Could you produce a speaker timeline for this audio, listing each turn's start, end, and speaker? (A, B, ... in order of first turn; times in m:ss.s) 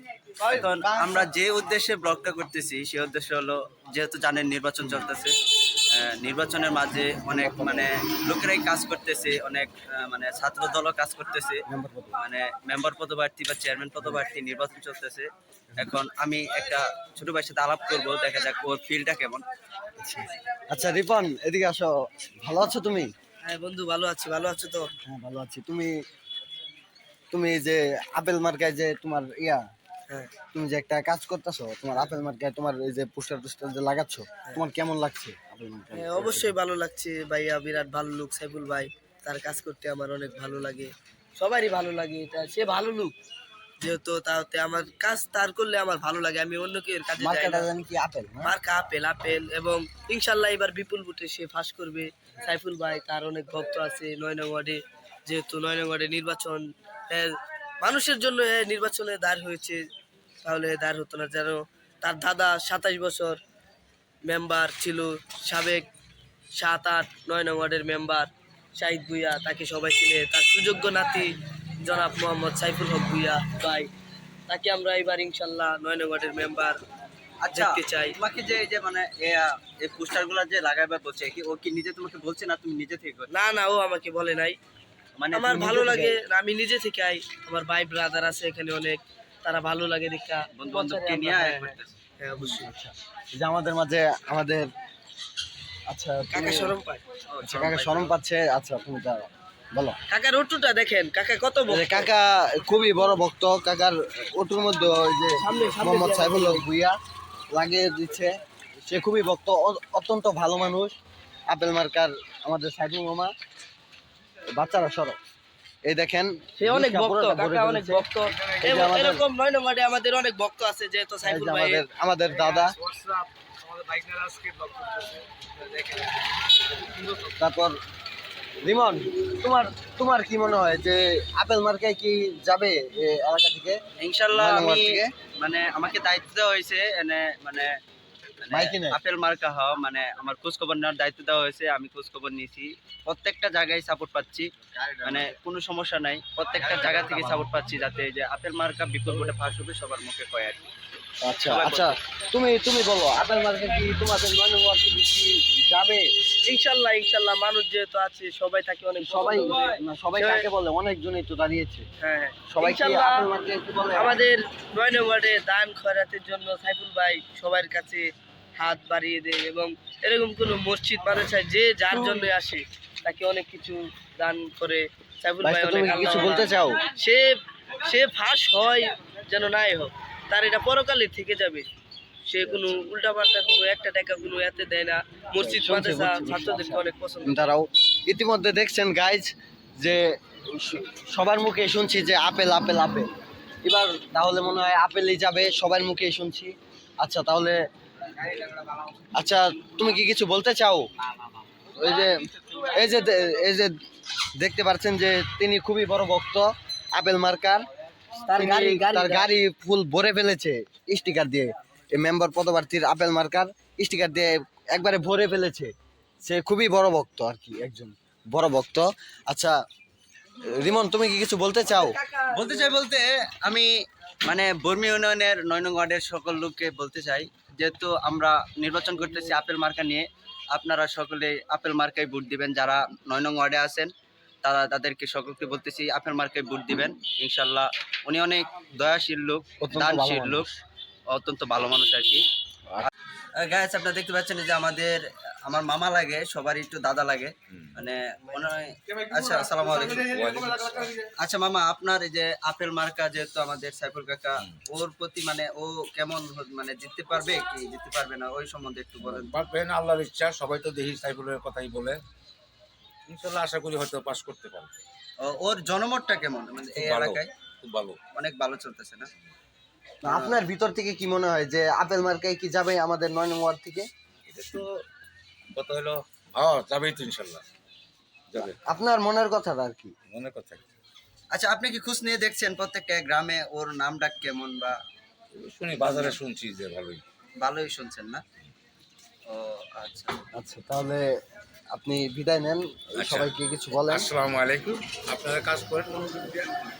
0:00.4-0:05.3 A
0:00.5-0:01.3 B
0:05.9-0:11.6 A
0:07.3-0:07.9 B
0:11.7-0:12.2 B
0:12.2-0:19.4 A
0:20.0-0:23.1 B
0:23.4-0:24.9 C
0:25.0-0:25.9 B
0:27.3-0:29.6 B
0:30.5-0:36.5 B
0:35.9-0:43.1 C
0:43.8-0:47.7 C
0:47.2-0:48.5 B
0:48.4-0:59.8 C
1:00.4-1:03.4 C
1:04.2-1:05.8 C
1:06.6-1:11.3 C
1:11.8-1:13.9 C
1:14.5-1:16.8 C
1:17.4-1:23.3 A
1:17.5-1:18.1 C
1:23.3-1:24.6 C
1:25.2-1:25.8 A
1:25.3-1:32.7 C
1:25.5-1:26.2 B
1:30.5-1:32.0 A
1:32.4-1:34.7 B
1:35.9-1:36.7 B
1:36.3-1:37.0 C
1:37.3-1:38.1 A
1:37.4-1:40.0 B
1:40.1-1:42.1 C
1:41.7-1:47.0 B
1:45.4-1:46.6 C
1:47.5-1:48.3 B
1:48.9-1:50.9 B
1:51.5-1:53.3 B
1:54.5-1:55.2 B
1:55.8-1:58.0 B
1:56.6-2:01.8 C
1:58.6-1:59.2 B
2:01.2-2:02.8 B
2:02.4-2:05.0 D
2:05.6-2:06.1 D
2:06.9-2:07.3 D
2:07.4-2:07.8 B
2:08.6-2:13.8 B
2:14.0-2:17.7 A
2:14.3-2:15.1 B
2:18.4-2:24.5 A
2:18.5-2:19.0 B
2:24.7-2:25.4 B
2:25.0-2:30.6 A
2:26.6-2:27.5 B
2:31.2-2:36.1 B
2:31.4-2:31.9 A
2:36.4-2:40.4 C
2:39.0-2:41.8 B
2:42.0-2:43.2 C
2:42.5-2:44.2 B
2:43.9-2:48.0 C
2:48.6-2:57.3 C
2:55.4-2:56.8 B
2:57.8-3:01.6 C
3:02.3-3:07.4 C
3:02.4-3:02.8 B
3:05.3-3:13.1 B
3:13.6-3:17.6 B
3:19.2-3:20.9 B
3:21.7-3:23.7 B
3:24.4-3:27.7 B
3:28.2-3:29.3 C
3:28.3-3:35.7 B
3:36.2-3:39.6 B
3:40.4-3:42.0 B
3:41.7-3:42.7 C
3:42.3-3:43.7 A
3:44.2-3:53.9 A
3:54.4-4:00.5 A
3:59.6-4:00.6 B
4:01.1-4:02.2 A
4:02.8-4:10.2 A
4:07.5-4:07.8 D
4:10.0-4:11.0 D
4:11.2-4:19.3 A
4:19.0-4:22.0 D
4:23.1-4:24.7 D
4:25.2-4:27.3 A
4:26.8-4:28.0 D
4:28.1-4:29.1 A
4:30.0-4:33.8 B
4:30.0-4:30.4 A
4:34.2-4:34.8 D
4:35.5-4:37.4 D
4:38.3-4:38.6 D
4:38.4-4:39.9 B
4:40.1-4:40.6 D
4:41.3-4:44.8 A
4:45.3-4:47.0 D
4:45.8-4:46.2 A
4:47.4-4:48.2 A
4:49.2-4:50.2 A
4:50.3-4:51.1 B
4:51.7-4:54.1 B
4:53.0-4:56.5 D